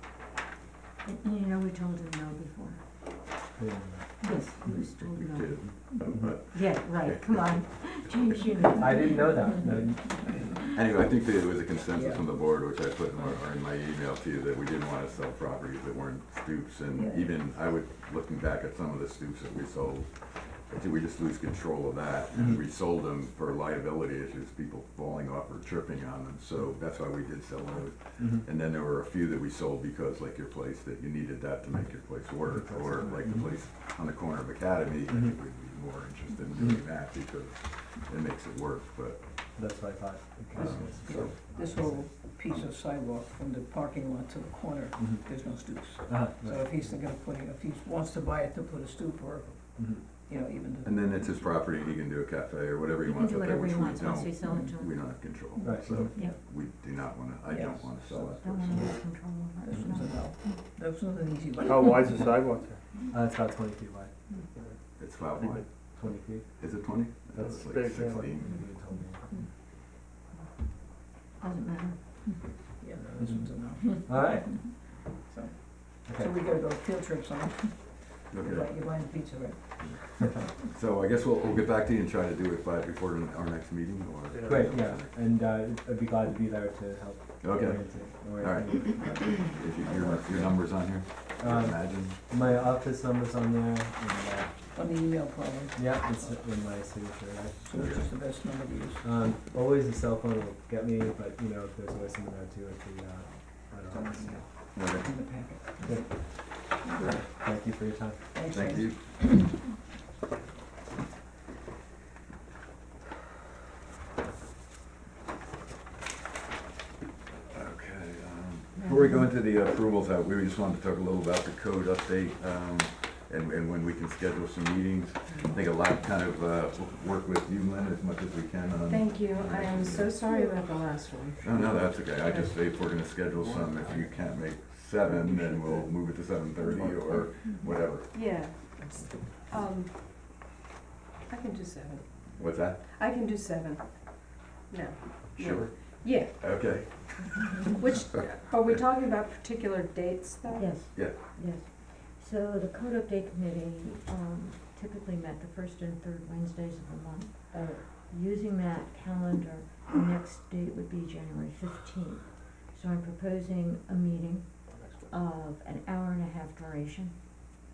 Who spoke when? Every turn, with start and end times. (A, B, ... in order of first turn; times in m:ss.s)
0:01.0-0:02.8 A
0:03.6-0:04.2 B
0:04.2-0:05.7 A
0:04.2-0:04.6 C
0:05.0-0:07.6 D
0:06.5-0:09.6 A
0:08.8-0:10.4 B
0:10.7-0:39.3 D
0:11.9-0:12.2 C
0:16.9-0:17.3 C
0:28.2-0:28.4 B
0:32.5-0:33.5 B
0:35.1-0:35.4 B
0:36.6-0:36.8 B
0:39.6-0:42.1 B
0:40.6-0:41.2 D
0:40.7-0:49.6 C
0:45.0-0:45.2 B
0:46.1-0:46.8 B
0:49.8-0:50.0 B
0:50.2-0:51.1 C
0:50.8-0:58.9 D
0:53.0-0:55.0 A
0:55.6-0:56.4 C
0:55.6-0:56.1 B
0:57.5-0:58.9 C
0:58.4-1:00.3 A
0:59.6-1:02.2 C
1:01.6-1:02.8 E
1:03.1-1:04.1 B
1:05.0-1:05.7 D
1:05.4-1:05.6 E
1:06.0-1:06.5 B
1:06.6-1:08.5 D
1:07.4-1:08.3 E
1:07.8-1:09.3 B
1:11.4-1:12.3 A
1:12.8-1:20.1 C
1:13.0-1:13.5 B
1:14.1-1:14.6 B
1:16.1-1:16.3 B
1:18.3-1:18.9 D
1:19.8-1:25.1 D
1:24.3-1:24.8 E
1:24.4-1:29.5 B
1:27.4-1:32.2 D
1:30.2-1:30.5 B
1:31.4-1:34.6 B
1:34.7-1:36.4 C
1:35.8-1:37.6 B
1:37.6-1:39.0 C
1:37.7-1:38.0 D
1:39.0-1:44.4 B
1:43.9-1:46.1 C
1:44.8-1:45.1 D
1:45.8-1:48.2 B
1:46.8-1:47.2 C
1:48.3-1:49.5 C
1:48.5-1:49.2 D
1:57.5-2:10.2 D
2:08.9-2:12.6 F
2:11.4-2:18.1 D
2:15.4-2:15.9 F
2:16.6-2:17.2 F
2:18.1-2:19.9 F
2:18.8-2:19.3 C
2:21.3-2:26.3 F
2:22.4-2:22.8 D
2:25.4-2:27.6 D
2:27.7-2:30.8 F
2:30.5-2:47.2 A
2:37.5-2:37.8 F
2:44.8-2:45.1 E